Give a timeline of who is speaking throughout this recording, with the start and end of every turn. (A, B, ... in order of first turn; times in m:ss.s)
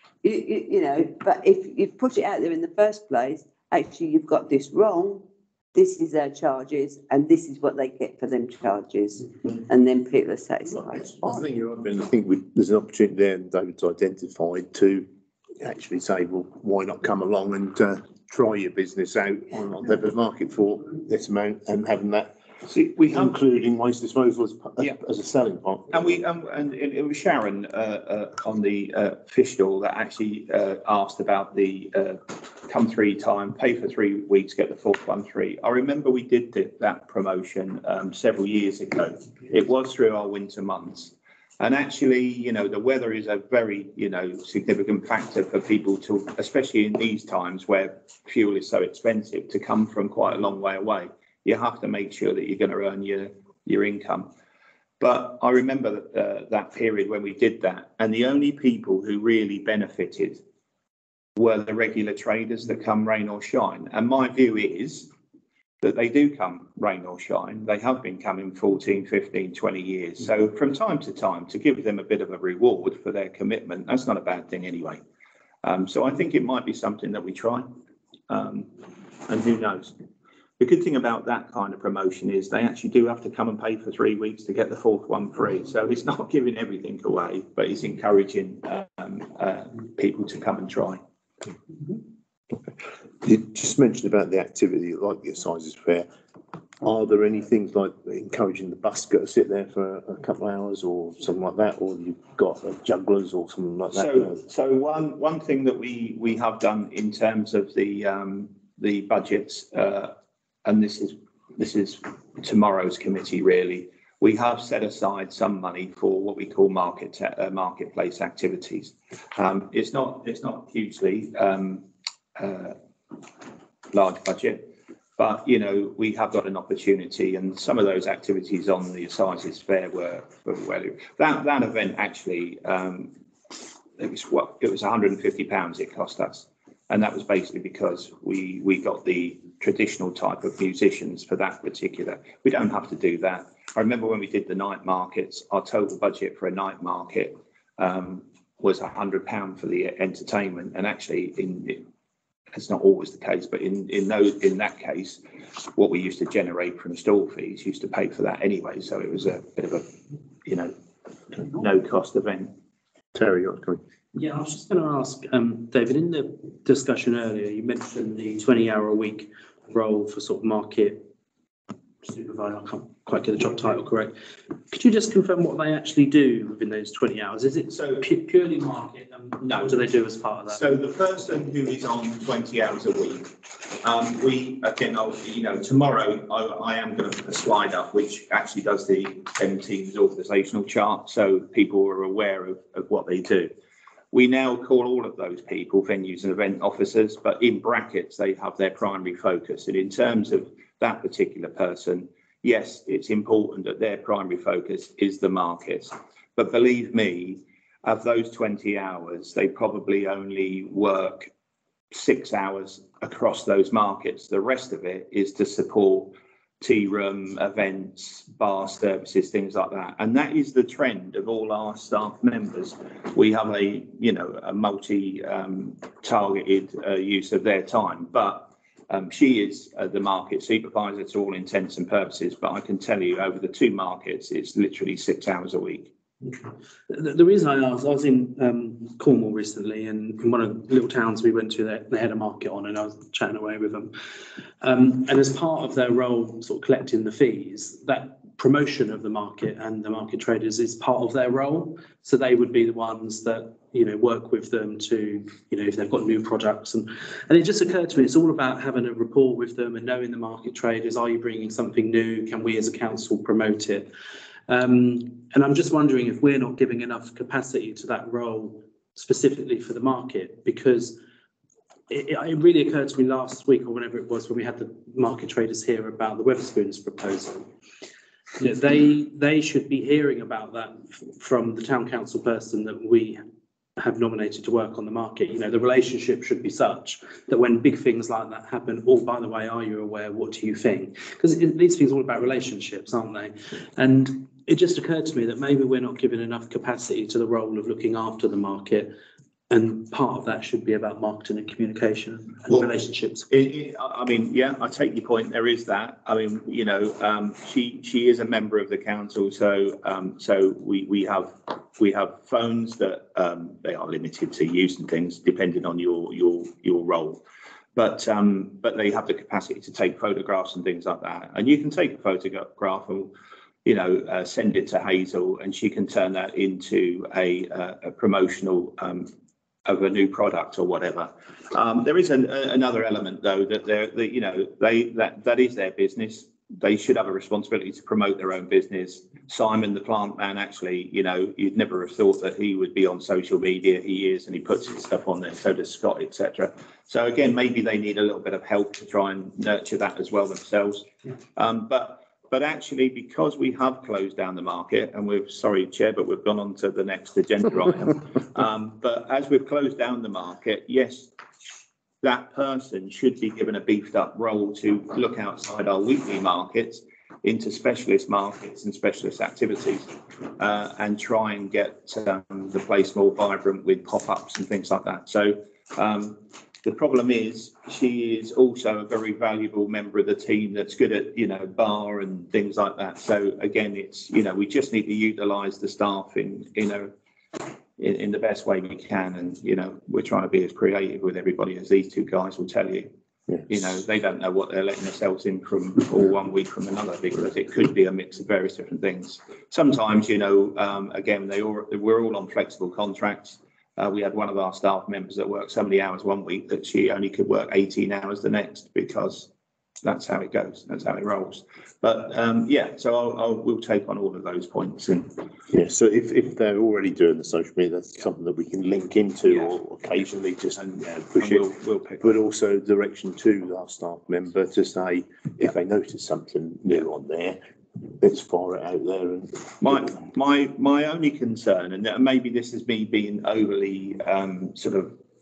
0:00.2-0:11.2 A
0:10.8-0:15.1 B
0:15.6-0:22.4 B
0:22.7-0:23.3 C
0:23.1-0:26.2 B
0:25.9-0:54.3 C
0:55.0-1:00.4 C
1:01.4-1:05.1 C
1:05.8-1:15.0 C
1:15.6-1:17.7 C
1:18.3-1:18.7 C
1:19.3-1:19.9 C
1:20.6-1:31.0 C
1:33.2-1:36.1 B
1:36.8-1:44.4 B
1:43.9-1:50.1 C
1:50.6-2:02.8 C
2:03.9-2:13.1 C
2:14.0-2:31.8 C
2:32.5-2:35.2 C
2:35.7-2:39.9 C
2:40.4-2:40.7 C
2:41.5-2:42.6 C
2:43.1-2:43.8 B
2:44.1-2:51.1 D
2:52.0-2:54.1 D
2:54.7-3:00.6 D
2:57.7-2:58.0 C
2:59.4-2:59.7 C
3:00.5-3:13.5 C
3:14.1-3:31.3 C
3:31.9-3:55.9 C
3:56.9-4:03.9 D
4:04.6-4:23.9 D
4:24.5-4:31.0 D
4:31.9-4:37.5 D
4:38.4-4:43.2 D
4:43.8-4:58.9 D
4:59.5-5:03.3 D
5:03.3-5:17.2 C
5:17.8-5:23.1 C
5:23.6-5:29.1 C
5:29.6-6:01.1 C
6:02.0-6:26.9 C
6:27.8-6:32.9 C
6:33.5-6:49.3 C
6:49.8-6:55.2 C
6:55.5-7:01.5 B
6:59.3-6:59.6 C
7:00.6-7:02.1 C
7:02.0-7:09.7 B
7:09.6-7:14.9 C